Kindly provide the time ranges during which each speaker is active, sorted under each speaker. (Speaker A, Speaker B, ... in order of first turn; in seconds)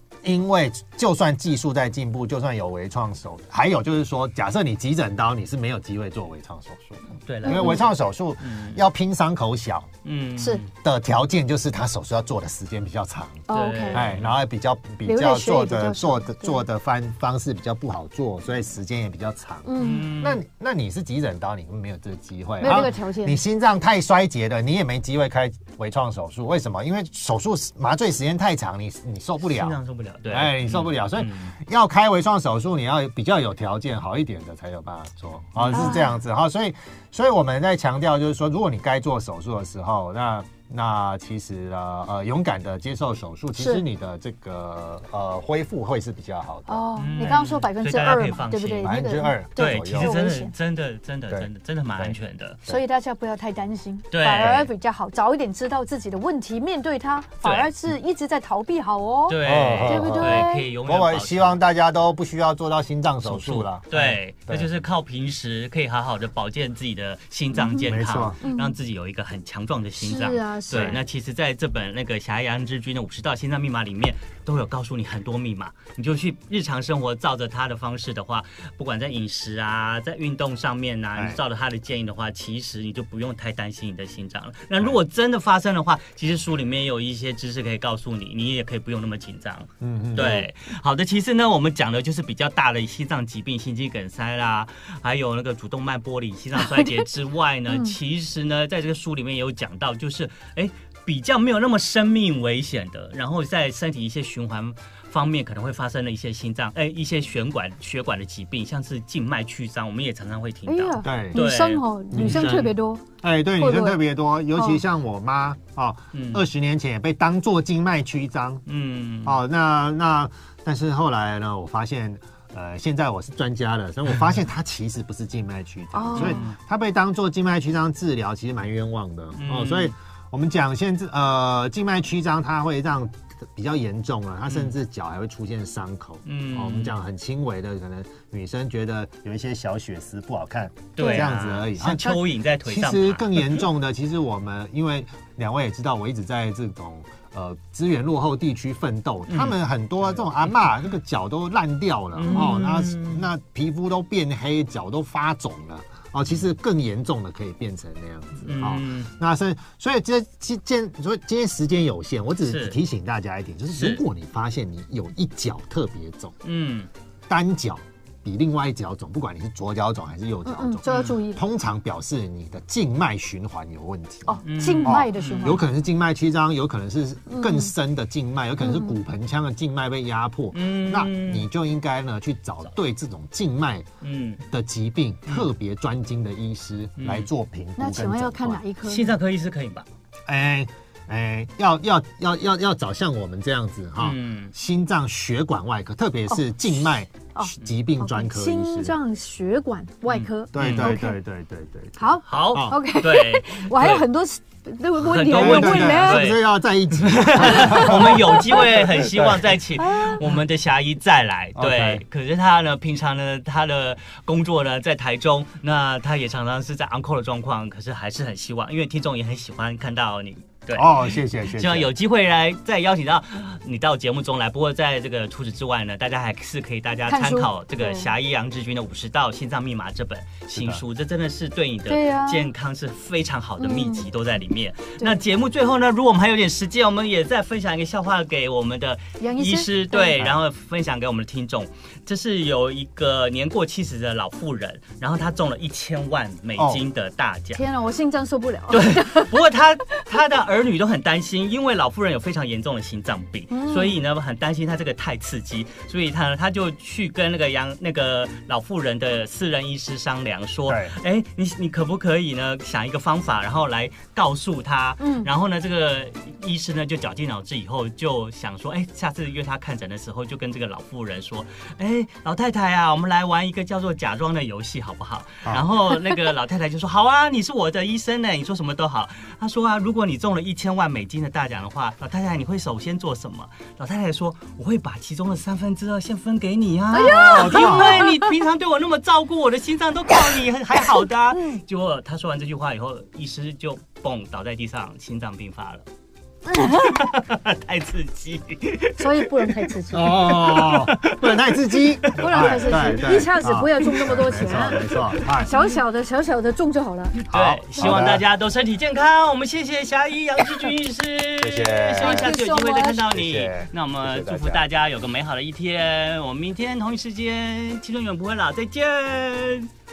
Speaker A: 0.2-9.9, 10.8-46.9, 48.8-50.2, 51.3-52.2, 54.4-54.7, 59.4-64.7, 67.8-68.4, 70.7-71.0, 81.2-81.4, 89.8-90.5, 111.0-111.4, 112.1-112.7, 113.2-118.6, 119.2-166.3, 167.3-183.9, 184.5-188.6, 190.3-199.0, 200.5-202.8, 205.3-209.6, 211.6-212.0, 220.7-221.9, 230.5-230.8, 246.6-246.8, 260.7-260.9, 287.1-288.1, 299.9-305.5, 307.3-308.2, 311.4-312.4, 313.0-314.6
Speaker B: 7.3-8.8, 10.0-10.7, 13.5-14.3, 19.8-20.4, 29.4-31.5, 35.6-36.0, 47.0-52.6, 54.1-54.7, 57.4-57.7, 59.3-61.6, 63.2-112.7, 116.1-116.4, 118.7-119.4, 126.2-126.6, 129.4-129.9, 136.3-137.0, 141.0-143.7, 149.3-149.6, 152.2-153.3, 158.5-159.1, 162.4-162.8, 163.8-164.0, 166.4-166.9, 170.9-171.2, 174.4-175.6, 180.5-181.5, 184.0-184.4, 187.0-187.3, 188.8-189.9, 194.0-194.5, 200.1-201.0, 202.3-204.1, 205.0-247.6, 248.7-295.9, 296.5-303.1, 304.0-305.6, 307.2-319.7
Speaker C: 7.5-7.8, 10.4-10.6, 13.5-14.1, 15.0-16.6, 19.6-20.1, 22.6-23.4, 35.7-36.1, 43.6-43.8, 46.7-50.5, 52.7-60.7, 67.5-67.9, 68.4-68.8, 70.0-71.0, 90.2-90.4, 110.7-113.0, 113.6-114.0, 114.5-114.8, 125.9-126.5, 141.0-141.3, 170.5-171.4, 174.3-175.6, 177.3-177.7, 178.6-179.0, 187.8-189.2, 196.3-201.2, 202.0-206.3, 207.5-208.4, 209.9-210.2, 227.1-228.1, 231.9-232.5, 233.6-234.1, 239.2-240.2, 247.5-249.4, 253.5-254.0, 265.0-265.3, 286.9-288.3, 291.3-291.6, 296.5-297.1, 299.0-300.3, 302.1-304.8, 305.4-307.2, 307.8-308.0, 312.0-313.0